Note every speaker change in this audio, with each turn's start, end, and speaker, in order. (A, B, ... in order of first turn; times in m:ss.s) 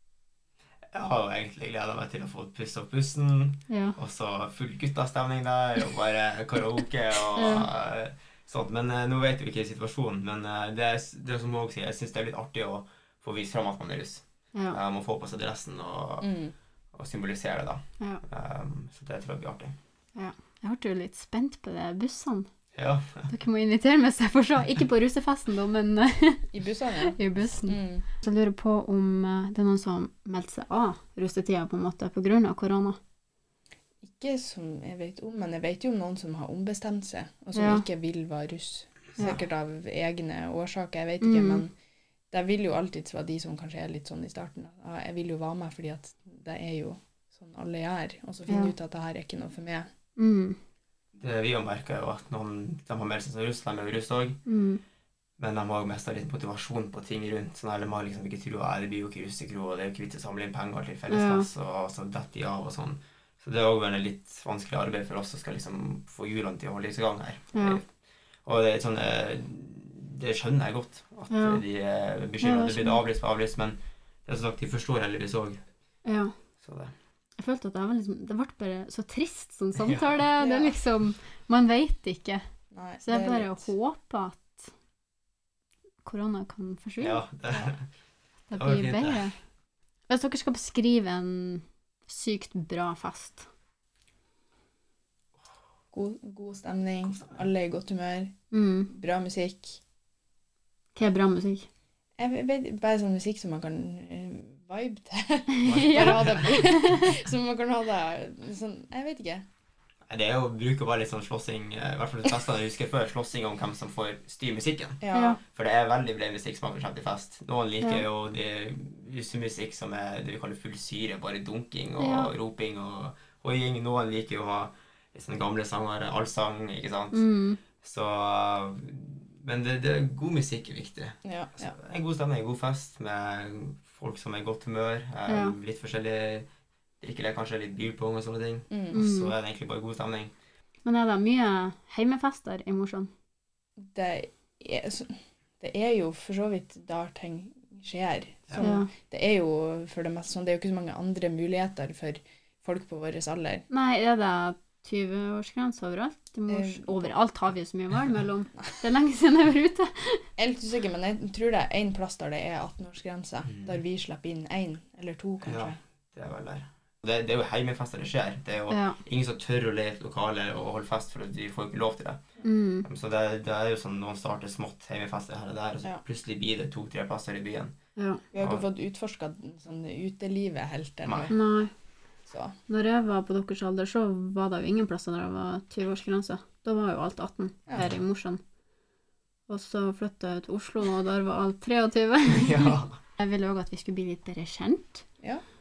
0:00.9-0:16.3 A
0:03.7-0:04.0 B
0:07.4-0:07.7 B
0:16.2-0:16.5 C
0:16.9-0:19.8 A
0:20.2-0:22.5 B
0:22.7-0:23.3 A
0:23.3-0:26.5 B
0:26.5-0:28.1 C
0:27.0-0:33.0 B
0:34.0-0:41.7 C
0:37.6-0:37.8 B
0:41.2-0:41.6 B
0:42.3-0:49.9 C
0:48.5-0:48.7 B
0:50.2-0:50.6 B
0:51.2-0:54.4 A
0:54.5-0:54.8 B
0:55.4-1:07.9 A
1:01.1-1:01.5 B
1:07.5-1:07.8 B
1:08.4-1:15.6 A
1:11.3-1:11.6 B
1:12.4-1:13.0 B
1:16.0-1:16.3 B
1:16.6-1:16.9 A
1:17.4-1:22.4 B
1:19.8-1:20.2 A
1:20.4-1:20.8 C
1:22.7-1:23.7 C
1:23.0-1:24.7 B
1:26.0-1:27.2 B
1:27.0-1:27.9 A
1:28.5-1:29.4 B
1:28.6-1:29.3 A
1:30.1-1:33.5 B
1:35.9-1:38.4 C
1:38.5-1:38.9 B
1:38.9-1:39.8 C
1:41.0-1:41.7 B
1:42.2-1:49.4 C
1:45.6-1:47.1 B
1:45.6-1:46.5 A
1:50.1-2:07.2 A
1:55.0-1:55.4 C
1:55.1-1:55.4 B
2:02.0-2:02.3 B
2:07.1-2:07.6 B
2:07.8-2:16.5 A
2:11.2-2:11.8 C
2:15.3-2:15.6 B
2:17.0-2:20.3 A
2:18.7-2:19.0 C
2:18.9-2:19.3 B
2:20.8-2:23.1 B
2:23.8-2:33.7 C
2:28.6-2:28.9 B
2:33.7-2:40.2 B
2:36.5-2:37.1 C
2:40.4-2:45.8 C
2:45.4-2:52.2 A
2:48.7-2:49.0 B
2:52.4-2:52.9 B
2:52.8-2:57.8 A
2:58.0-2:58.2 B
2:58.3-3:01.4 C
2:58.4-2:58.7 A
3:01.0-3:01.3 A
3:01.3-3:01.7 B
3:02.3-3:02.6 C
3:02.7-3:08.4 B
3:07.8-3:08.0 A
3:09.5-3:15.0 B
3:12.3-3:13.0 A